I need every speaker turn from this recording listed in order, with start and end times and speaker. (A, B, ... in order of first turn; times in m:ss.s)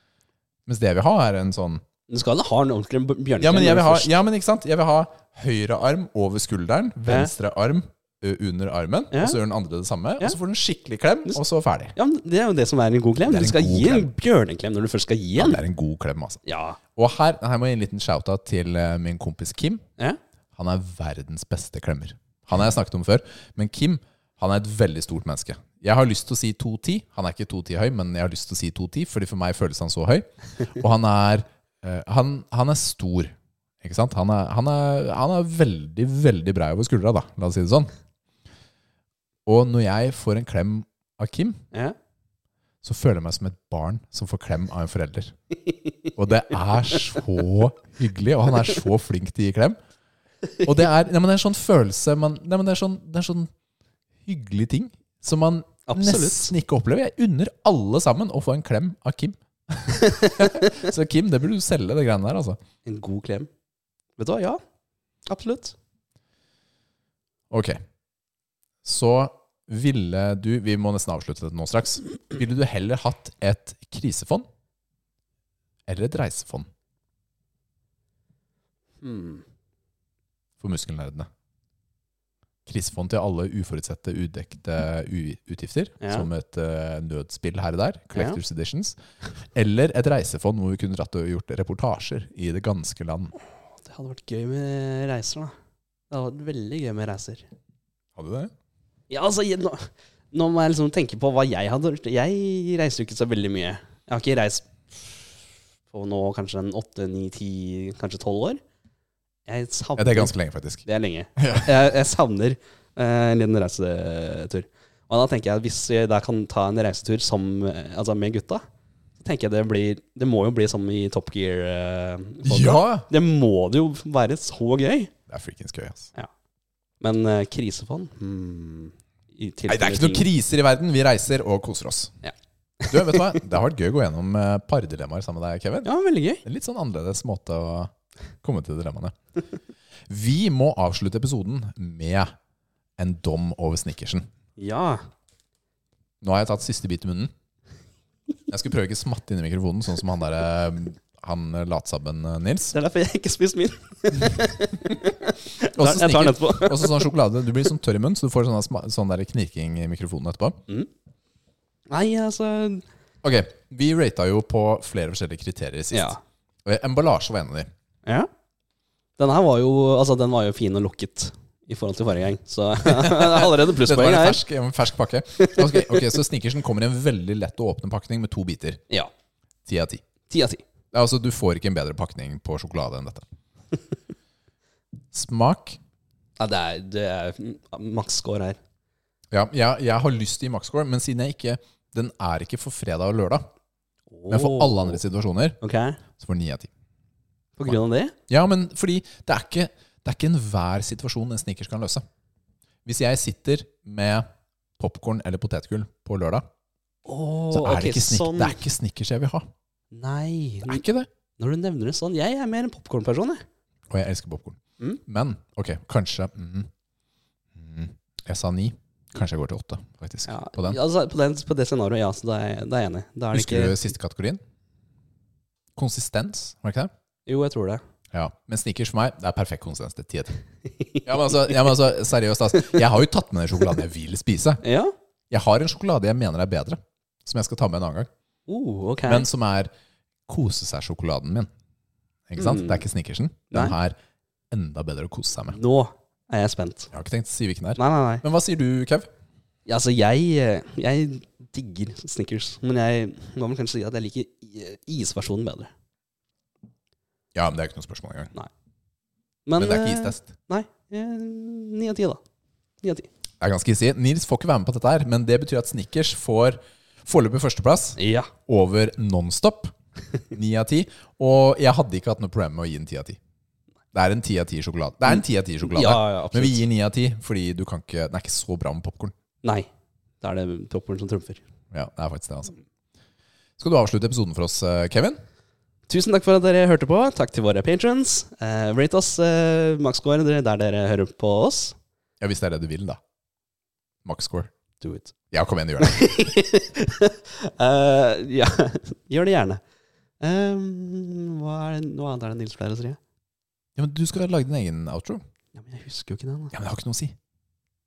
0:00.6-0:01.8 A
0:02.1-0:04.1 B
0:03.4-0:11.9 A
0:09.1-0:09.4 B
0:12.0-0:15.6 B
0:13.2-0:14.1 A
0:15.4-0:16.4 A
0:16.4-0:16.8 B
0:17.0-0:19.8 A
0:20.5-0:37.9 A
0:39.4-0:41.6 A
0:42.8-0:45.3 A
0:46.2-0:49.8 A
0:50.6-0:53.5 A
0:54.2-1:02.6 A
0:55.9-0:56.5 B
0:59.9-1:00.7 B
1:02.8-1:03.5 B
1:04.2-1:04.6 B
1:05.3-1:05.8 B
1:07.5-1:07.8 A
1:08.8-1:14.4 A
1:15.9-1:16.7 A
1:19.0-1:19.4 B
1:20.6-1:21.3 A
1:22.6-1:29.0 A
1:26.0-1:26.3 B
1:28.1-1:28.4 B
1:29.5-1:33.3 A
1:33.8-1:35.5 B
1:36.1-1:37.5 B
1:38.2-1:38.5 A
1:39.1-1:45.3 B
1:45.9-1:48.6 B
1:49.5-1:50.3 B
1:50.0-1:50.8 A
1:50.8-1:58.6 B
1:51.4-1:51.8 A
1:59.2-2:05.1 B
2:02.4-2:03.1 A
2:05.3-2:06.1 A
2:07.0-2:10.3 B
2:09.7-2:12.2 A
2:12.2-2:13.4 B
2:12.9-2:15.9 A
2:15.8-2:16.4 B
2:16.4-2:17.9 A
2:18.4-2:19.1 A
2:20.1-2:22.3 A
2:23.0-2:24.3 A
2:24.6-2:25.0 B
2:26.2-2:27.3 A
2:28.5-2:32.7 A
2:32.7-2:37.1 B
2:35.8-2:40.6 A
2:41.9-2:42.8 B
2:43.2-2:47.7 A
2:45.9-2:46.2 B
2:49.2-2:54.4 B
2:52.8-2:58.8 A
2:55.4-2:56.2 B
2:59.6-3:00.0 A
3:00.3-3:00.6 B
3:00.9-3:03.3 A
3:05.1-3:05.8 A
3:06.4-3:08.6 B
3:09.3-3:13.4 A
3:14.1-3:15.0 B
3:14.3-3:15.6 A
3:15.6-3:16.0 B
3:16.2-3:16.7 A
3:17.6-3:18.1 B
3:18.3-3:22.0 A
3:22.8-3:24.3 A
3:24.8-3:26.4 A
3:27.0-3:28.6 B
3:27.5-3:29.5 A
3:29.9-3:30.8 B
3:30.6-3:31.1 A
3:31.4-3:33.4 B
3:33.9-3:36.7 A
3:37.5-3:40.8 A
3:40.3-3:43.8 B
3:43.3-3:44.4 A
3:45.8-3:46.9 A
3:47.3-3:47.8 B
3:48.1-3:50.4 A
3:50.7-3:51.7 B
3:51.0-3:54.6 A
3:54.6-3:54.9 B
3:55.3-3:58.1 A
3:58.5-3:59.3 B
3:59.0-3:59.7 A
4:00.3-4:01.5 A
4:02.3-4:04.0 A
4:02.4-4:02.8 B
4:04.5-4:05.6 A
4:05.5-4:06.9 B
4:06.9-4:09.1 A
4:07.8-4:08.2 B
4:09.6-4:15.7 B
4:17.3-4:18.3 A
4:19.5-4:22.2 B
4:19.6-4:20.3 A
4:22.8-4:23.1 B
4:23.4-4:29.7 A
4:28.0-4:28.3 B
4:30.3-4:33.2 A
4:33.9-4:39.1 A
4:35.1-4:36.6 B
4:39.4-4:39.7 B
4:40.2-4:41.4 B
4:41.7-4:42.6 A
4:43.6-4:45.2 A
4:45.9-4:51.8 B
4:52.2-4:53.0 A
4:54.0-4:54.5 A
4:54.8-4:55.1 B
4:55.3-4:56.1 A
4:55.8-4:59.6 B
5:00.2-5:03.0 B
5:03.8-5:05.2 A
5:05.5-5:06.5 B
5:06.5-5:07.2 A